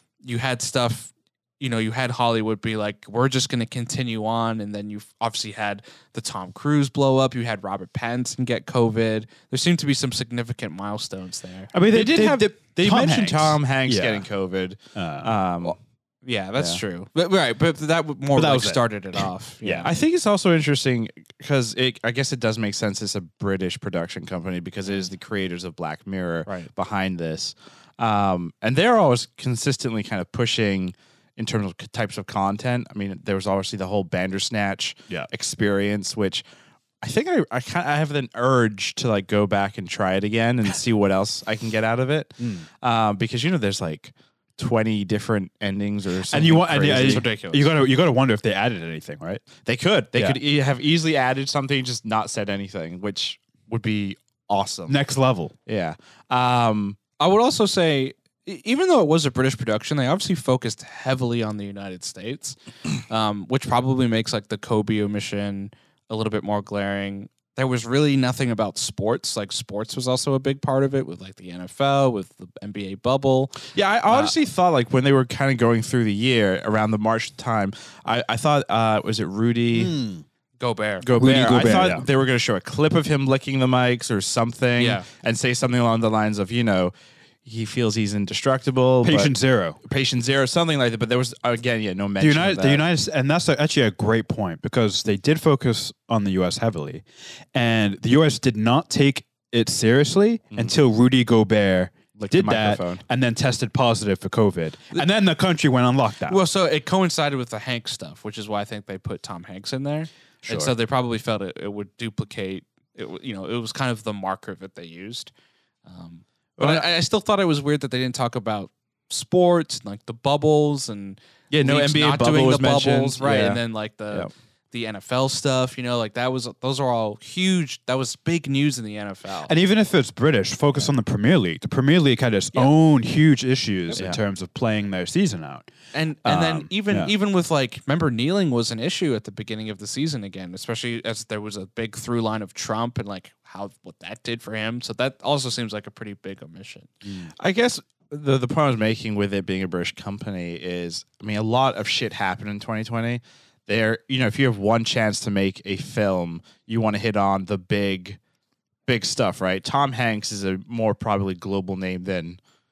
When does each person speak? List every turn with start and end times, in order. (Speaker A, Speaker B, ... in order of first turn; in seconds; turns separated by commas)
Speaker A: 0.2-11.7, Speaker B: 11.7-14.2, Speaker C: 11.9-15.8, Speaker B: 14.9-15.3, Speaker A: 16.2-19.9, Speaker C: 16.6-16.8, Speaker B: 18.3-19.9, Speaker C: 19.8-36.4, Speaker C: 37.0-47.3, Speaker B: 42.4-42.6, Speaker B: 46.3-49.5, Speaker A: 46.9-47.7, Speaker C: 49.6-55.0, Speaker B: 54.9-55.5, Speaker C: 55.6-57.0, Speaker A: 57.2-74.3, Speaker C: 73.7-79.9, Speaker B: 79.7-80.2, Speaker A: 80.6-81.1, Speaker C: 81.0-86.9, Speaker B: 81.1-82.0, Speaker A: 84.8-85.0, Speaker C: 87.4-89.3, Speaker B: 89.0-89.8, Speaker C: 89.8-92.8, Speaker B: 92.2-106.4, Speaker C: 102.1-103.0, Speaker A: 106.3-115.3, Speaker B: 110.4-110.7, Speaker A: 115.8-129.5, Speaker C: 116.6-116.8, Speaker C: 121.5-124.3, Speaker B: 129.4-135.7, Speaker C: 133.9-134.2, Speaker A: 135.9-146.9, Speaker B: 136.2-137.1, Speaker B: 147.0-147.3, Speaker C: 147.4-158.2, Speaker C: 158.8-162.4